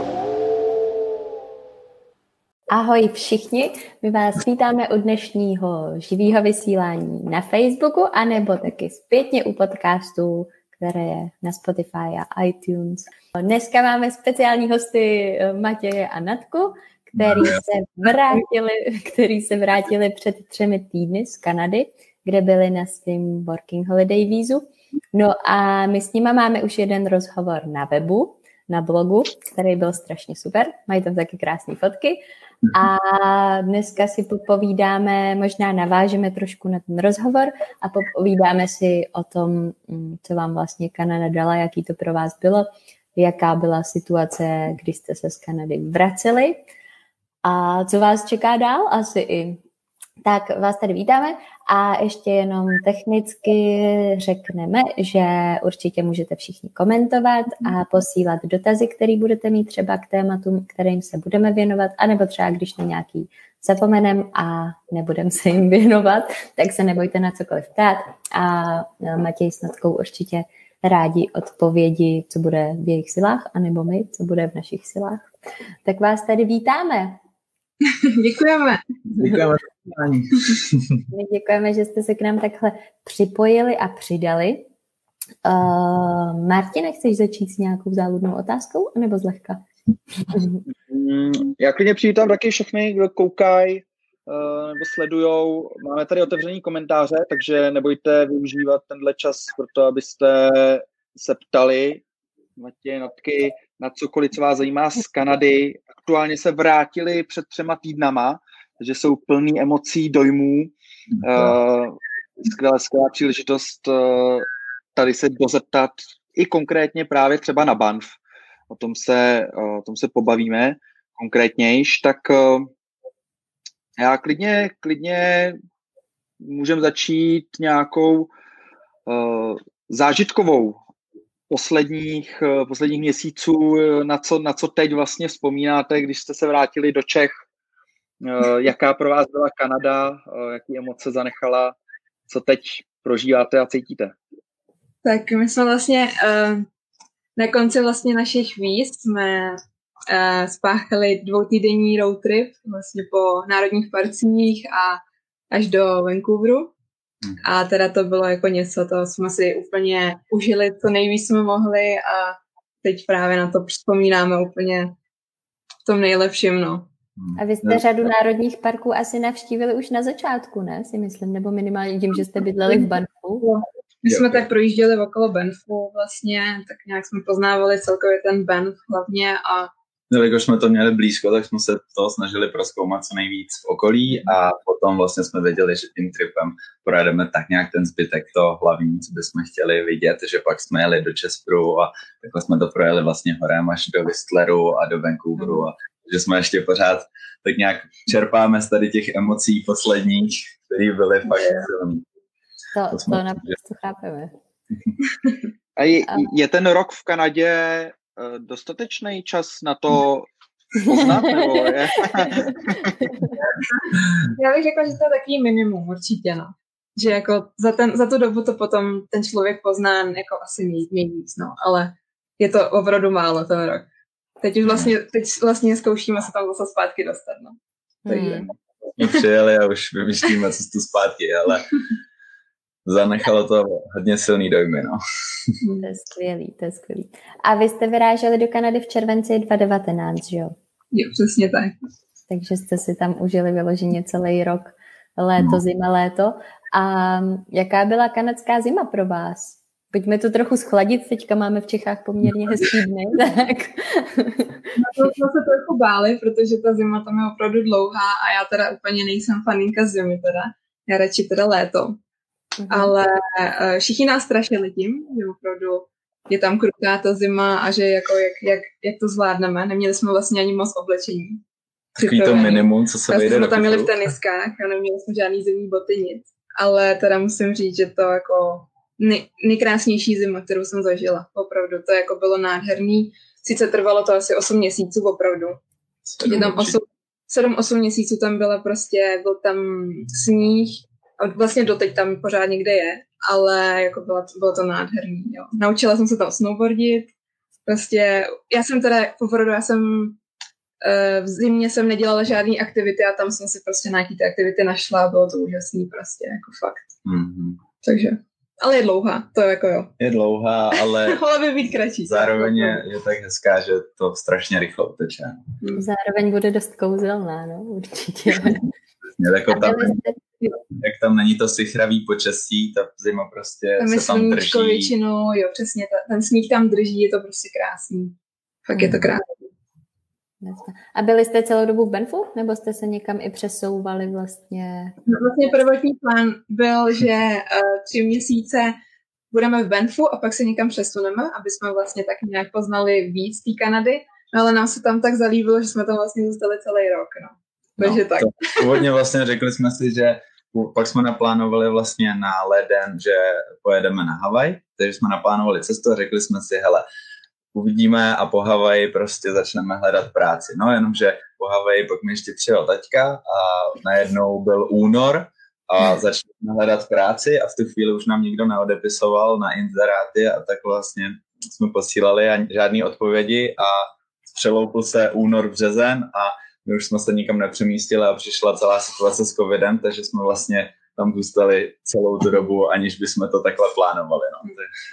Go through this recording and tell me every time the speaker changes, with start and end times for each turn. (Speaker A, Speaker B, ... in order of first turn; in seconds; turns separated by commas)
Speaker A: 2.7-32.2, Speaker B: 17.2-17.6, Speaker A: 32.7-46.6, Speaker A: 47.4-49.6, Speaker A: 50.2-75.3, Speaker A: 75.8-77.2, Speaker C: 77.8-78.8, Speaker B: 79.1-81.0, Speaker A: 81.1-84.7, Speaker A: 85.4-89.6, Speaker A: 90.3-90.6, Speaker D: 90.7-102.0, Speaker D: 102.6-118.2, Speaker D: 118.7-122.7, Speaker D: 124.0-125.6, Speaker D: 126.4-128.3, Speaker D: 129.1-130.8, Speaker D: 131.5-137.4, Speaker D: 138.2-141.8, Speaker D: 142.3-144.1, Speaker C: 145.0-146.7, Speaker C: 147.3-156.7, Speaker C: 157.4-164.9, Speaker C: 165.8-166.8, Speaker B: 167.2-167.8, Speaker A: 167.3-173.6, Speaker C: 173.4-179.7, Speaker B: 174.1-174.4, Speaker B: 180.1-202.0, Speaker A: 202.7-204.3, Speaker B: 202.9-203.6, Speaker D: 205.8-213.0, Speaker A: 212.1-212.4, Speaker A: 213.0-213.3, Speaker C: 213.7-223.8, Speaker C: 224.4-227.6, Speaker B: 224.6-224.9, Speaker A: 228.1-228.4, Speaker C: 228.1-229.2, Speaker B: 229.0-231.7, Speaker B: 232.8-235.5, Speaker C: 235.6-235.9, Speaker A: 235.8-240.5, Speaker C: 240.9-241.7, Speaker A: 242.3-254.7, Speaker C: 254.8-262.0, Speaker A: 262.6-262.9, Speaker C: 262.7-271.4, Speaker B: 271.9-273.9, Speaker C: 272.0-285.6, Speaker B: 286.1-286.8, Speaker C: 286.2-297.1, Speaker C: 297.6-300.2, Speaker C: 300.8-306.9, Speaker B: 307.0-307.6, Speaker C: 307.8-309.9, Speaker B: 310.0-311.2, Speaker C: 310.8-312.8, Speaker B: 312.1-315.4, Speaker A: 315.7-318.7, Speaker B: 318.3-318.5, Speaker B: 319.1-320.0, Speaker A: 319.5-320.2, Speaker B: 320.7-324.9, Speaker C: 323.8-329.3, Speaker B: 328.8-329.1, Speaker A: 330.4-334.9, Speaker C: 335.1-338.8, Speaker C: 339.3-348.8, Speaker B: 347.8-356.8, Speaker B: 357.5-384.7